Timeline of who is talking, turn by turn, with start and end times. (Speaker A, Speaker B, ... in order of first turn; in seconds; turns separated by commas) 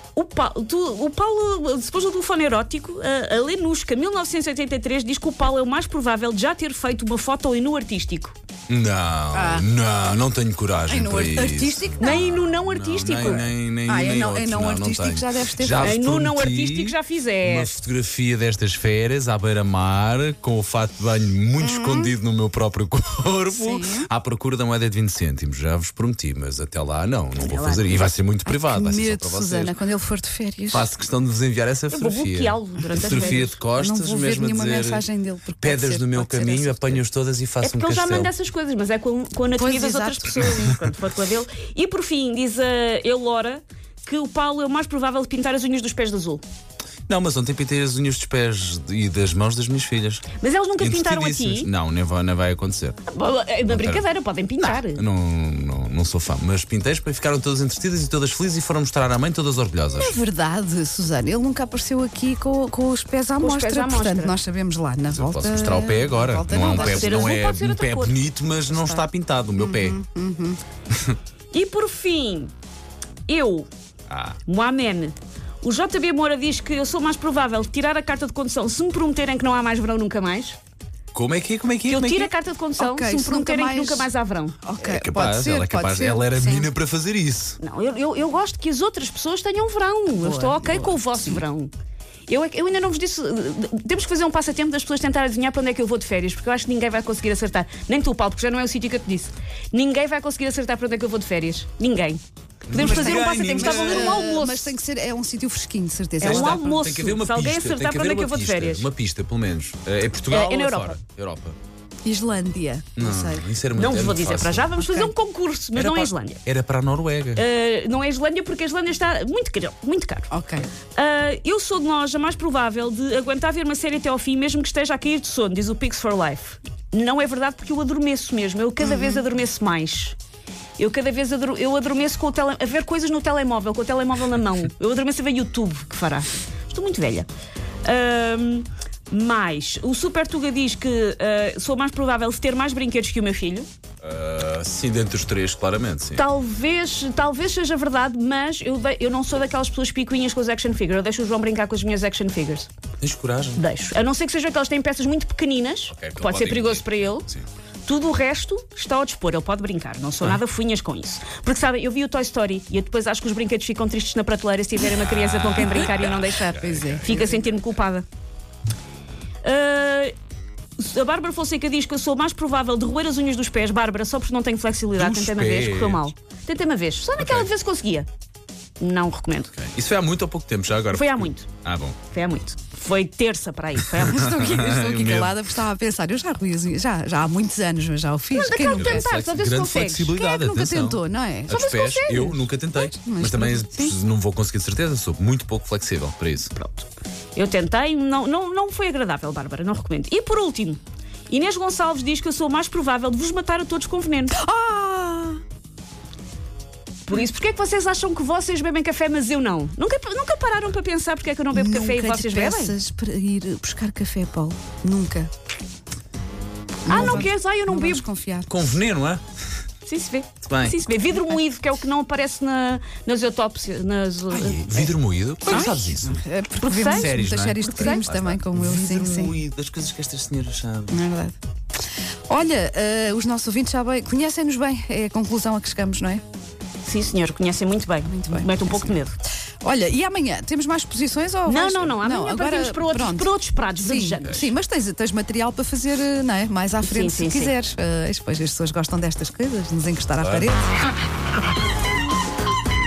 Speaker A: 0.1-8.4, Speaker B: 8.7-29.8, Speaker C: 9.3-9.7, Speaker C: 10.9-12.4, Speaker A: 12.0-13.5, Speaker C: 13.9-16.0, Speaker A: 15.8-17.7, Speaker C: 21.6-22.1, Speaker C: 23.5-24.1, Speaker A: 27.4-28.1, Speaker C: 28.4-30.9, Speaker B: 30.7-35.0, Speaker A: 31.9-33.6, Speaker C: 33.0-37.0, Speaker B: 35.6-38.3, Speaker A: 37.6-46.4, Speaker C: 39.5-40.7, Speaker B: 47.1-50.3, Speaker A: 50.4-51.7, Speaker B: 50.8-53.0, Speaker A: 53.1-55.0, Speaker B: 53.7-54.0, Speaker B: 54.6-60.1, Speaker C: 60.0-67.3, Speaker A: 63.4-64.4, Speaker B: 65.1-70.0, Speaker A: 66.7-68.2, Speaker C: 68.7-69.1, Speaker C: 69.6-70.6, Speaker A: 71.5-72.5, Speaker A: 73.3-73.7, Speaker B: 74.1-74.4, Speaker A: 74.5-80.6, Speaker B: 81.1-82.3, Speaker A: 81.9-84.6, Speaker C: 82.8-84.1, Speaker C: 84.6-86.7, Speaker B: 84.8-87.6, Speaker A: 87.6-91.7, Speaker C: 90.1-91.4, Speaker A: 92.3-104.8, Speaker B: 102.7-104.2, Speaker C: 102.7-106.9, Speaker A: 106.2-108.9, Speaker B: 106.2-111.6, Speaker A: 110.3-111.0, Speaker C: 112.0-113.5, Speaker B: 113.0-114.8, Speaker A: 113.7-116.4, Speaker C: 114.8-115.1, Speaker B: 115.8-117.4, Speaker A: 117.4-120.3, Speaker C: 120.3-120.7, Speaker A: 121.0-130.2, Speaker C: 128.8-129.2, Speaker A: 130.8-137.3, Speaker A: 137.8-143.7, Speaker B: 144.0-146.2, Speaker A: 146.2-152.7, Speaker B: 153.0-153.6, Speaker A: 153.6-157.3, Speaker B: 155.9-157.4, Speaker A: 157.9-168.1, Speaker B: 165.1-167.1, Speaker C: 166.5-167.5, Speaker A: 169.4-170.1, Speaker A: 170.8-178.1, Speaker B: 175.0-176.1, Speaker B: 177.2-177.5, Speaker A: 178.8-179.5, Speaker B: 179.5-182.0, Speaker A: 180.9-181.5, Speaker A: 182.1-184.3, Speaker C: 184.0-189.1, Speaker B: 184.0-185.4, Speaker A: 188.3-190.2, Speaker B: 188.7-196.5, Speaker C: 190.1-194.0, Speaker A: 191.5-192.3, Speaker A: 196.6-204.4, Speaker C: 204.3-205.4, Speaker A: 207.1-212.8, Speaker C: 211.5-215.3, Speaker C: 216.8-218.6, Speaker A: 216.9-218.1, Speaker B: 216.9-217.3, Speaker B: 218.5-219.2, Speaker A: 219.8-224.9, Speaker B: 220.4-220.8, Speaker B: 224.3-226.2, Speaker C: 225.5-229.3, Speaker A: 226.6-228.1, Speaker B: 226.9-231.0, Speaker C: 230.9-231.4, Speaker C: 232.3-236.2, Speaker A: 236.8-239.2, Speaker C: 238.1-239.0, Speaker C: 239.6-250.7, Speaker A: 241.5-244.4, Speaker B: 244.2-244.5, Speaker A: 246.8-247.5, Speaker B: 250.2-250.5